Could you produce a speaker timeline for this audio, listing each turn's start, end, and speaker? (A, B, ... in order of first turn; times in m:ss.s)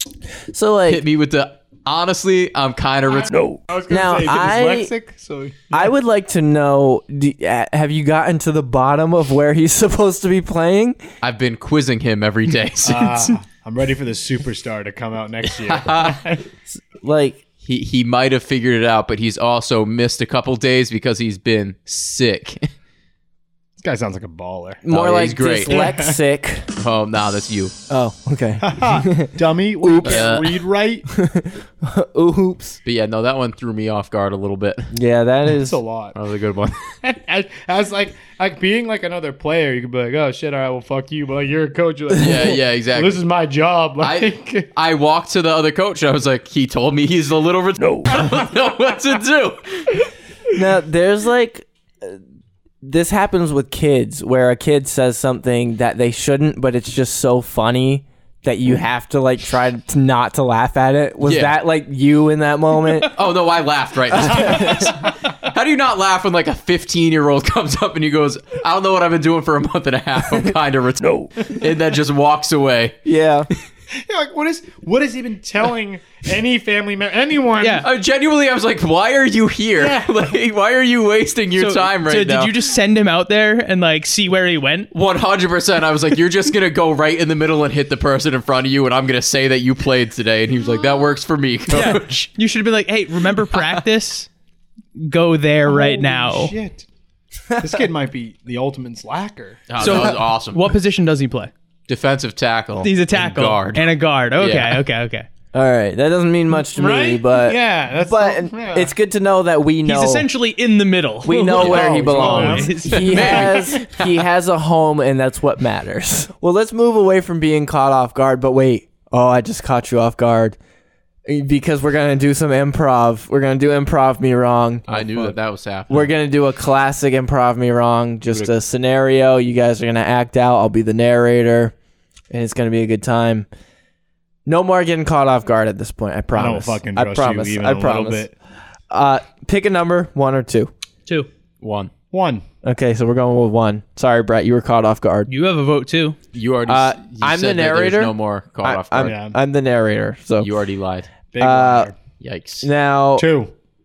0:00.5-0:01.0 A
0:00.9-0:03.4 B
0:03.1-0:05.9 C
0:03.9-0:04.9 A
0:05.7-0:11.0 A
0:11.2-0:13.3 B
0:12.8-0:16.4 C
0:15.5-0:16.2 B
0:16.8-0:17.4 A
0:17.6-0:22.7 B
0:23.8-0:24.8 C
0:24.8-0:26.7 A
0:24.9-0:25.9 B
0:25.7-0:26.2 C
0:26.8-0:27.7 B
0:27.9-0:30.3 A
0:28.6-0:31.1 C
0:30.0-0:30.5 B
0:31.1-0:32.8 A
0:32.8-0:34.9 B
0:34.9-0:35.8 A
0:35.6-0:36.2 C
0:36.1-0:37.0 B
0:37.0-0:44.7 C
0:42.2-0:43.2 B
0:44.0-0:50.1 B
0:50.5-0:52.2 A
0:52.8-1:03.2 A
1:01.2-1:01.6 B
1:03.1-1:13.0 B
1:04.1-1:05.0 A
1:13.0-1:13.5 A
1:14.0-1:17.8 C
1:17.6-1:17.9 D
1:17.8-1:22.5 B
1:19.8-1:20.1 C
1:21.6-1:24.9 D
1:24.9-1:32.1 B
1:31.7-1:34.3 D
1:33.5-1:33.8 B
1:35.0-1:36.6 D
1:35.7-1:36.9 C
1:37.6-1:40.1 C
1:39.7-1:40.7 B
1:39.8-1:41.5 D
1:41.9-1:43.9 B
1:42.8-1:45.3 D
1:44.4-1:44.8 B
1:45.5-1:50.3 A
1:46.7-1:48.9 C
1:49.8-1:53.5 D
1:51.2-2:00.6 A
1:51.5-1:53.8 C
1:52.9-1:54.1 B
2:01.3-2:05.4 A
2:04.9-2:06.1 B
2:05.9-2:11.7 A
2:12.3-2:13.5 A
2:14.5-2:18.3 A
2:16.3-2:18.3 C
2:18.9-2:20.7 A
2:21.6-2:21.9 B
2:22.1-2:22.4 C
2:22.6-2:25.3 A
2:25.3-2:26.2 D
2:26.3-2:29.2 B
2:26.7-2:30.5 A
2:29.0-2:29.4 C
2:30.4-2:31.1 B
2:31.3-2:32.0 C
2:31.4-2:31.9 A
2:32.2-2:32.7 B
2:32.6-2:33.3 A
2:33.2-2:33.5 C